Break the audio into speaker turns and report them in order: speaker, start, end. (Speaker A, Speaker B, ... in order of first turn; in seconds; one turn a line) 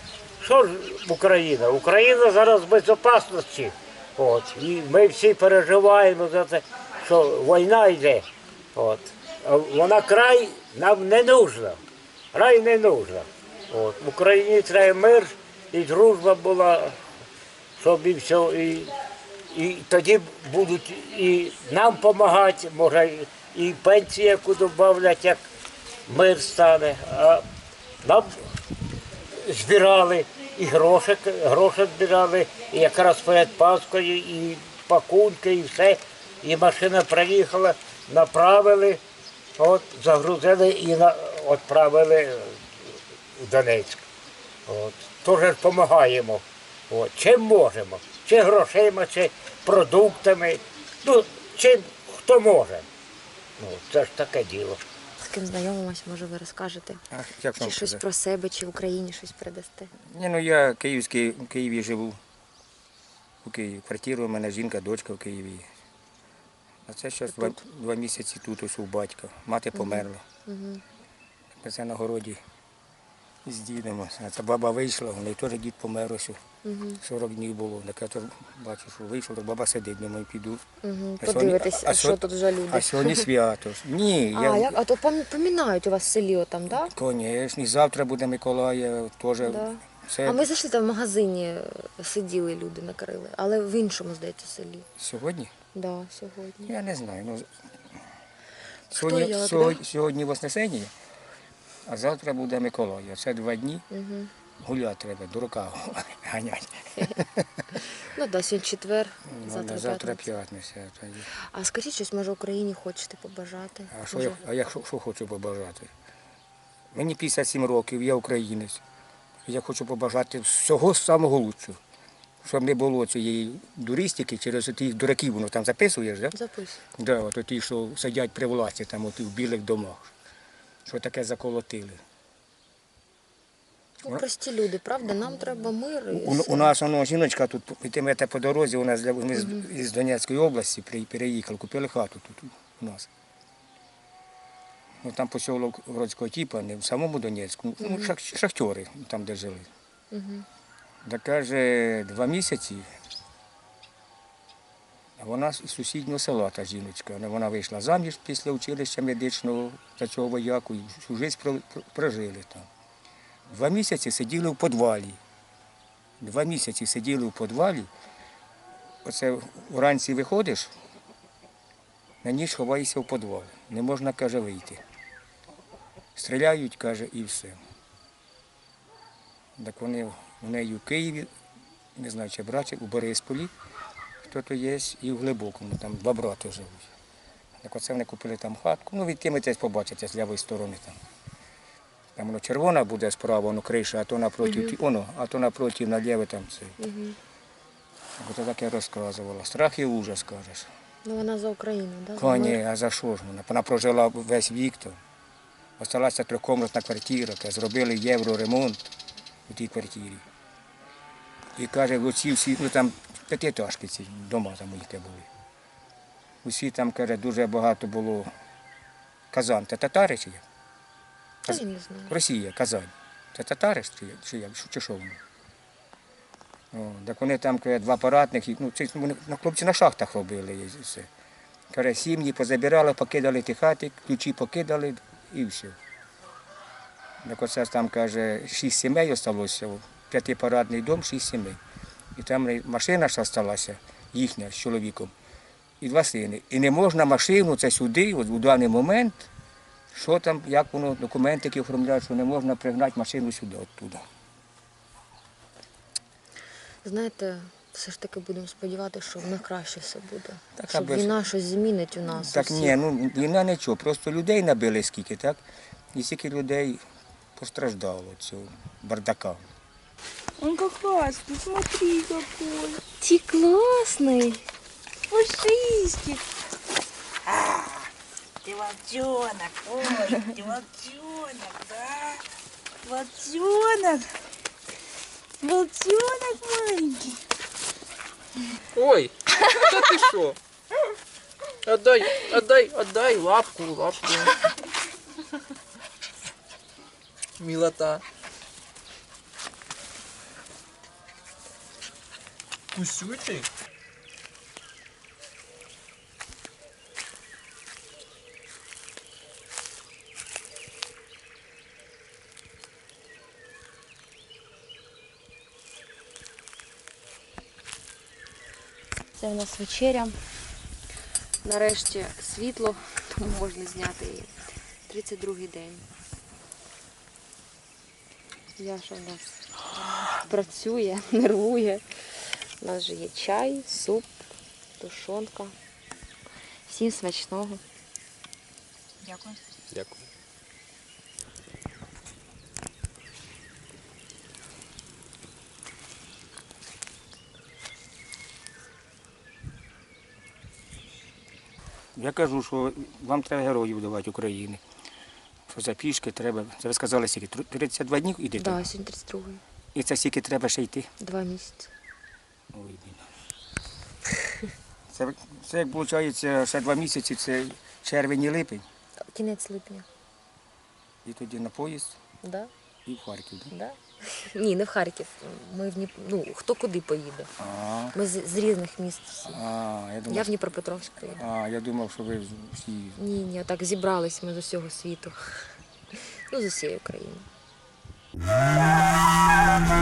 Speaker A: 0.4-11.8
Speaker A: 12.3-17.0
Speaker A: 17.8-18.9
Speaker A: 19.5-25.4
Speaker A: 26.1-27.4
Speaker A: 28.0-28.4
Speaker A: 29.4-39.0
Speaker A: 39.6-42.6
Speaker A: 43.4-44.0
Speaker A: 44.7-52.9
Speaker A: 53.6-54.8
Speaker B: 55.2-57.0
Speaker C: 57.1-58.0
Speaker B: 57.6-59.9
Speaker C: 60.1-62.2
Speaker C: 63.4-65.7
Speaker C: 66.9-70.2
Speaker B: 67.3-67.6
Speaker B: 69.8-70.8
Speaker C: 71.6-72.4
Speaker C: 73.5-76.4
Speaker B: 76.7-77.0
Speaker C: 77.0-80.6
Speaker B: 80.8-83.3
Speaker C: 81.2-84.8
Speaker B: 84.3-86.9
Speaker C: 86.8-90.5
Speaker B: 89.4-94.9
Speaker C: 95.0-95.5
Speaker B: 95.7-96.7
Speaker C: 96.7-97.5
Speaker C: 98.9-100.9
Speaker B: 98.9-99.8
Speaker C: 101.9-103.8
Speaker B: 103.9-104.3
Speaker C: 104.6-107.6
Speaker B: 108.1-110.4
Speaker C: 109.3-111.3
Speaker B: 111.5-114.4
Speaker C: 113.9-115.9
Speaker C: 116.9-118.8
Speaker C: 119.5-121.8
Speaker C: 122.4-126.4
Speaker B: 126.3-126.8
Speaker C: 127.0-130.1
Speaker C: 130.9-132.0
Speaker B: 134.0-136.8
Speaker C: 136.1-143.1
Speaker B: 139.4-139.6
Speaker C: 145.0-149.7
Speaker B: 147.8-148.1
Speaker B: 150.1-150.5
Speaker C: 151.1-152.9
Speaker C: 155.2-162.7
Speaker C: 163.5-165.2
Speaker C: 166.2-167.9
Speaker C: 169.1-170.7
Speaker C: 172.2-174.8
Speaker C: 176.2-177.6
Speaker C: 179.6-181.3
Speaker C: 182.0-183.5
Speaker C: 184.2-186.9
Speaker C: 187.6-191.0
Speaker C: 192.2-196.8
Speaker B: 194.4-194.8
Speaker B: 196.8-197.2
Speaker C: 198.2-200.7
Speaker B: 201.1-202.6
Speaker C: 202.2-205.0
Speaker C: 205.8-208.8
Speaker C: 209.5-210.2
Speaker C: 211.6-215.3
Speaker C: 216.4-218.3
Speaker C: 219.3-220.4
Speaker C: 221.5-225.2
Speaker B: 221.5-222.2
Speaker C: 226.7-231.1
Speaker C: 231.7-235.8
Speaker C: 237.2-241.6
Speaker C: 242.2-245.1
Speaker C: 245.8-249.3
Speaker C: 249.9-254.0
Speaker B: 256.8-262.8
Speaker C: 260.6-261.2
Speaker C: 262.1-265.4
Speaker C: 265.9-266.8
Speaker C: 267.4-269.4
Speaker D: 270.4-272.8
Speaker B: 273.0-274.4
Speaker D: 275.1-276.2
Speaker D: 277.3-277.7
Speaker D: 278.4-282.1
Speaker D: 282.9-284.1
Speaker D: 285.4-287.1
Speaker E: 288.8-289.1
Speaker E: 289.7-290.4
Speaker E: 291.7-294.3
Speaker E: 297.4-298.0
Speaker E: 302.7-303.4
Speaker B: 319.2-320.2
Speaker B: 321.4-324.3
Speaker B: 324.9-325.9
Speaker B: 328.6-329.4
Speaker B: 330.1-331.8
Speaker B: 332.6-334.2
Speaker B: 334.8-335.5
Speaker B: 336.7-337.6
Speaker C: 351.9-354.6
Speaker C: 355.5-358.7
Speaker B: 358.4-359.4
Speaker C: 359.7-360.9
Speaker B: 361.0-361.7
Speaker C: 362.5-363.1
Speaker C: 364.9-368.6
Speaker B: 369.1-369.9
Speaker C: 371.0-372.0
Speaker B: 372.2-372.5
Speaker C: 372.9-373.5
Speaker B: 373.5-377.3
Speaker C: 377.4-378.0
Speaker B: 377.9-379.4
Speaker C: 379.2-380.3
Speaker B: 380.1-381.2
Speaker C: 381.1-383.0
Speaker B: 383.0-385.2
Speaker B: 386.3-387.3